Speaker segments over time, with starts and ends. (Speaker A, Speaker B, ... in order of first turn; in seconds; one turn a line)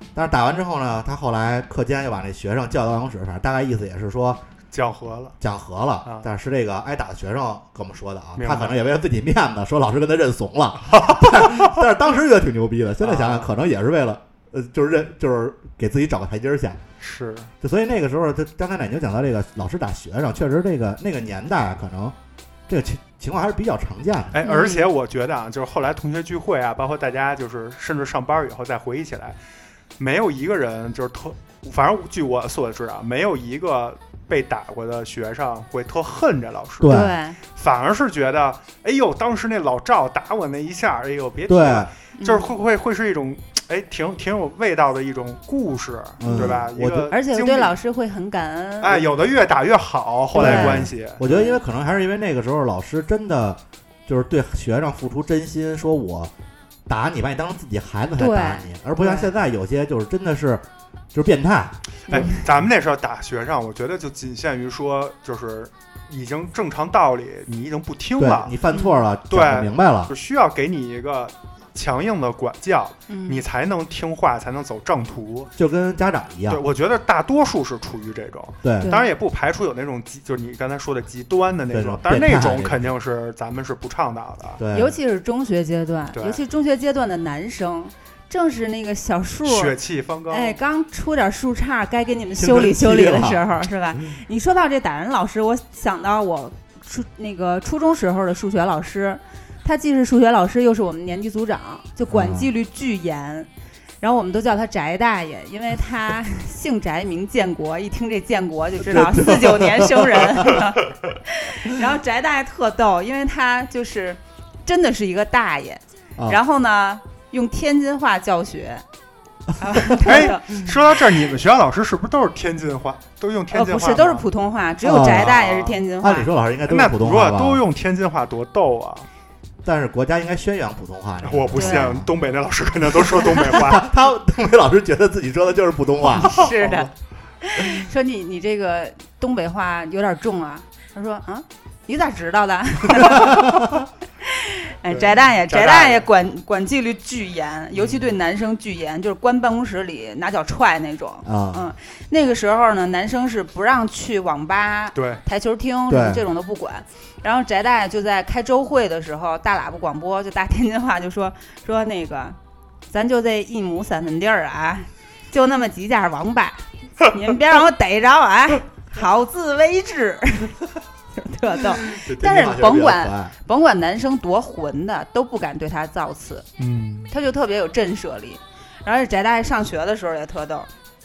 Speaker A: 0.1-4.4
Speaker B: 4.7-5.4
Speaker A: 5.4-16.8
Speaker B: 8.4-8.8
Speaker B: 10.8-11.8
Speaker B: 13.0-13.5
Speaker B: 17.0-17.5
Speaker A: 17.6-22.1
Speaker A: 22.7-24.4
Speaker B: 24.3-29.4
Speaker C: 24.4-24.9
Speaker B: 30.0-47.8
Speaker A: 36.8-37.2
Speaker C: 36.9-37.4
Speaker A: 41.5-41.9
Speaker C: 42.2-42.5
Speaker A: 46.2-47.1
Speaker C: 46.2-49.0
Speaker B: 48.8-51.3
Speaker C: 50.3-51.6
Speaker A: 50.3-56.3
Speaker A: 56.9-62.2
Speaker C: 58.2-59.3
Speaker C: 62.1-62.4
Speaker B: 62.1-68.5
Speaker A: 68.2-70.1
Speaker C: 68.7-69.0
Speaker B: 69.3-75.5
Speaker C: 73.1-73.4
Speaker A: 75.6-76.6
Speaker B: 76.5-84.6
Speaker A: 78.6-78.9
Speaker C: 78.8-79.1
Speaker A: 81.7-82.9
Speaker A: 84.6-85.0
Speaker C: 84.7-89.8
Speaker B: 86.1-86.4
Speaker B: 89.5-90.6
Speaker C: 90.3-103.5
Speaker A: 92.4-93.4
Speaker A: 102.1-102.5
Speaker C: 104.0-118.8
Speaker A: 108.8-110.6
Speaker C: 119.6-120.7
Speaker B: 120.0-124.3
Speaker C: 123.5-126.3
Speaker A: 124.8-125.4
Speaker B: 125.0-125.8
Speaker A: 126.0-127.6
Speaker B: 126.7-129.1
Speaker A: 129.6-132.1
Speaker B: 131.2-133.9
Speaker C: 131.6-131.9
Speaker A: 133.1-136.5
Speaker C: 136.2-136.9
Speaker B: 136.2-136.9
Speaker C: 137.4-143.6
Speaker A: 142.9-143.8
Speaker C: 144.2-162.4
Speaker B: 144.9-146.1
Speaker B: 147.8-148.1
Speaker A: 151.2-151.7
Speaker B: 154.9-155.2
Speaker A: 155.9-156.3
Speaker C: 162.9-170.6
Speaker C: 171.2-176.5
Speaker A: 171.9-173.3
Speaker B: 176.6-177.1
Speaker C: 177.1-180.7